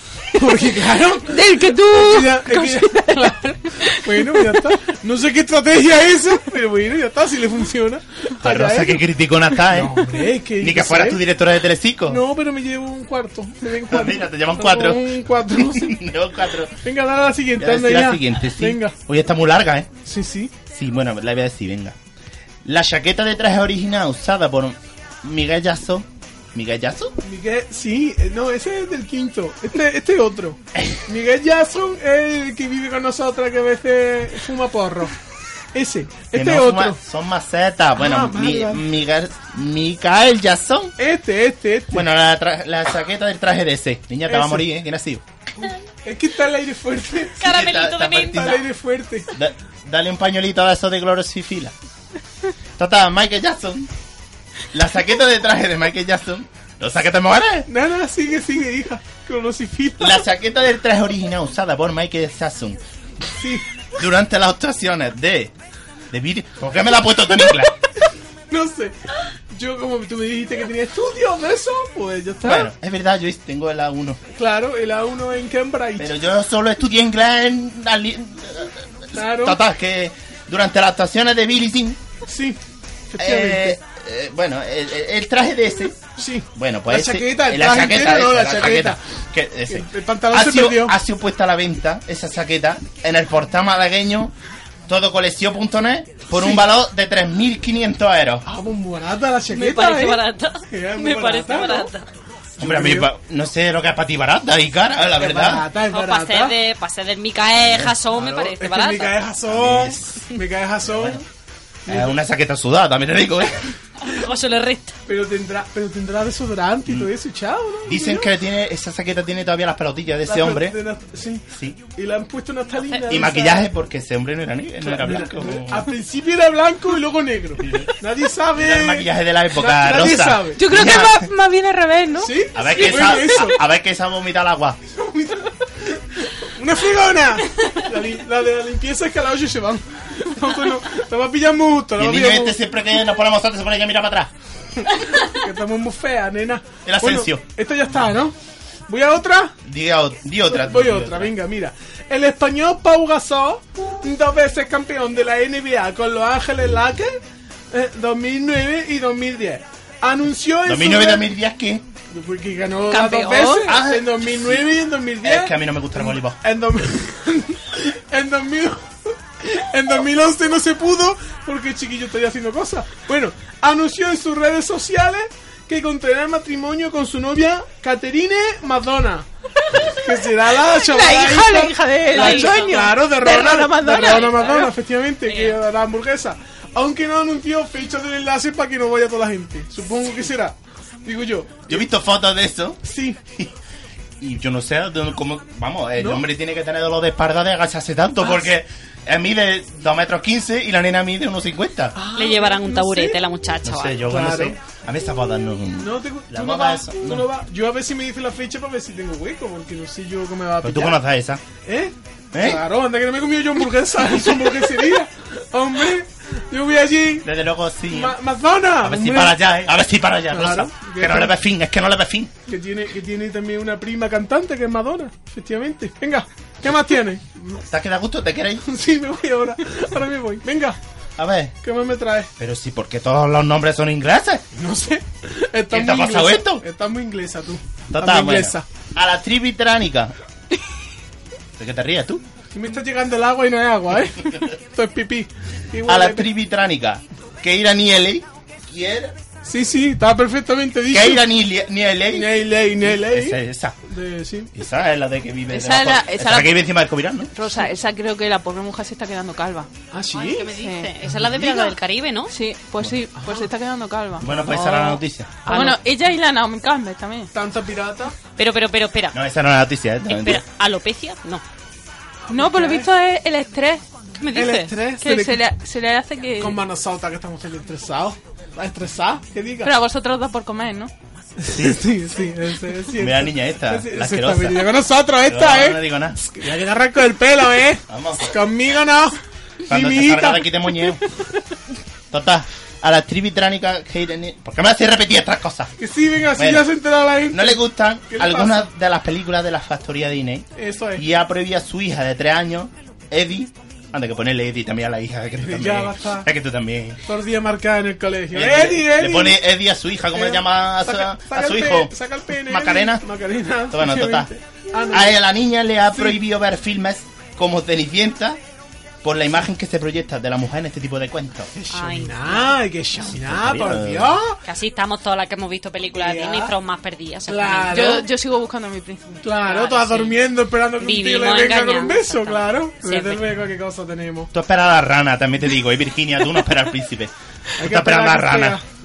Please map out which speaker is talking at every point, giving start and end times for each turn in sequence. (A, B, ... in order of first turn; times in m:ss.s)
0:00.3-0:09.0 A
0:01.2-0:04.6 B
0:08.4-0:12.2 C
0:09.6-0:11.2 A
0:12.1-0:16.0 A
0:13.9-0:16.8 C
0:16.8-0:18.9 A
0:17.6-0:19.9 C
0:20.0-0:20.5 A
0:20.7-0:21.9 C
0:22.6-0:27.1 C
0:27.2-0:35.1 A
0:30.7-0:31.0 C
0:35.7-0:37.0 A
0:36.3-0:40.9 C
0:38.0-0:38.8 A
0:41.0-0:42.0 A
0:41.9-0:45.2 C
0:44.2-0:44.6 A
0:45.6-0:47.5 A
0:47.4-0:48.6 D
0:47.4-0:48.6 C
0:48.4-0:49.3 A
0:49.3-0:51.7 C
0:52.8-0:53.9 C
0:54.7-0:57.7 C
0:57.7-1:00.2 A
1:00.0-1:02.8 C
1:03.4-1:03.6 A
1:04.0-1:05.5 C
1:06.1-1:07.7 C
1:08.5-1:12.7 A
1:12.4-1:14.2 C
1:14.4-1:16.1 A
1:16.0-1:22.0 C
1:19.1-1:19.6 A
1:22.3-1:22.6 A
1:23.1-1:23.8 A
1:23.2-1:26.0 C
1:26.2-1:29.0 A
1:26.6-1:34.3 C
1:29.7-1:31.0 A
1:34.9-1:38.4 C
1:36.3-1:36.6 A
1:38.4-1:41.9 A
1:39.5-1:42.0 D
1:42.6-1:43.1 A
1:42.6-1:45.6 C
1:45.2-1:46.6 A
1:45.9-1:49.2 D
1:47.6-1:48.2 C
1:48.2-1:51.2 A
1:49.4-1:50.2 C
1:50.8-1:51.2 C
1:51.9-1:52.1 A
1:51.9-1:53.7 C
1:54.0-1:54.9 D
1:55.1-1:58.3 A
1:56.9-1:57.1 C
1:57.8-2:00.8 C
2:00.2-2:01.4 A
2:01.5-2:01.8 C
2:01.9-2:03.7 A
2:02.8-2:03.1 D
2:03.1-2:05.9 C
2:04.8-2:10.7 A
2:07.6-2:07.9 C
2:08.6-2:11.3 C
2:10.6-2:12.3 B
2:12.2-2:13.6 A
2:12.5-2:14.8 C
2:14.9-2:22.6 A
2:22.0-2:24.3 C
2:24.8-2:28.3 A
2:26.8-2:27.4 C
2:28.9-2:29.6 A
2:29.6-2:31.3 C
2:30.5-2:37.2 A
2:37.7-2:41.3 A
2:40.6-2:41.8 C
2:42.1-2:48.9 A
2:42.9-2:43.7 B
2:43.6-2:44.7 C
2:45.2-2:46.4 C
2:49.4-2:59.3 A
2:59.8-3:00.0 B
2:59.9-3:11.8 A
3:00.6-3:04.3 B
3:02.1-3:02.7 D
3:04.0-3:05.6 D
3:11.7-3:12.8 C
3:12.8-3:13.2 A
3:14.2-3:21.9 C
3:16.0-3:16.2 A
3:18.2-3:18.5 A
3:21.9-3:23.2 A
3:22.1-3:24.0 D
3:23.6-3:27.3 C
3:24.1-3:24.6 A
3:25.8-3:31.0 A
3:30.6-3:31.4 C
3:31.6-3:37.3 A
3:32.3-3:32.6 C
3:37.2-3:38.2 C
3:37.9-3:39.5 A
3:38.8-3:42.3 C
3:40.3-3:41.3 A
3:42.5-3:47.6 A
3:47.6-3:48.6 C
3:48.6-3:50.8 A
3:51.2-3:51.5 C
3:51.6-3:52.3 A
3:52.4-3:54.4 C
3:54.6-3:58.6 A
3:55.7-3:56.6 C
3:57.9-4:00.1 C
4:01.6-4:02.2 C
4:02.5-4:06.3 A
4:05.8-4:09.2 C
4:09.4-4:11.3 A
4:10.9-4:13.8 C
4:12.1-4:14.5 A
4:14.6-4:17.3 C
4:15.5-4:16.6 B
4:17.3-4:19.7 B
4:19.9-4:20.5 A
4:20.1-4:22.3 D
4:20.5-4:20.9 B
4:21.0-4:21.7 C
4:22.3-4:24.2 B
4:23.2-4:23.5 A
4:24.2-4:25.4 C
4:24.2-4:25.8 D
4:25.4-4:27.3 B
4:27.3-4:28.1 A
4:28.4-4:29.2 D
4:29.1-4:30.4 C
4:30.1-4:31.4 D
4:32.3-4:32.9 A
4:32.3-4:33.8 B
4:34.2-4:34.7 D
4:34.3-4:35.4 A
4:35.0-4:36.6 B
4:36.4-4:39.7 A
4:39.6-4:40.9 B
4:41.4-4:50.5 A
4:41.5-4:41.9 C
4:42.9-4:46.2 C
4:47.9-4:48.4 C
4:49.7-4:51.0 C
4:52.1-4:55.7 C
4:55.8-4:58.6 A
4:56.3-4:56.7 C
4:57.3-5:07.0 C
5:00.6-5:01.0 A
5:05.4-5:06.3 A
5:07.1-5:09.4 A
5:08.3-5:13.0 C
5:10.1-5:15.2 A
5:13.7-5:14.3 C
5:14.9-5:18.4 C
5:15.9-5:16.2 A
5:19.0-5:21.5 C
5:21.6-5:24.4 A
5:21.7-5:22.6 D
5:23.2-5:24.2 C
5:24.4-5:28.0 D
5:25.9-5:26.5 A
5:27.3-5:28.0 A
5:27.7-5:29.2 B
5:29.2-5:34.3 A
5:29.4-5:33.2 D
5:34.3-5:38.6 C
5:37.6-5:38.6 A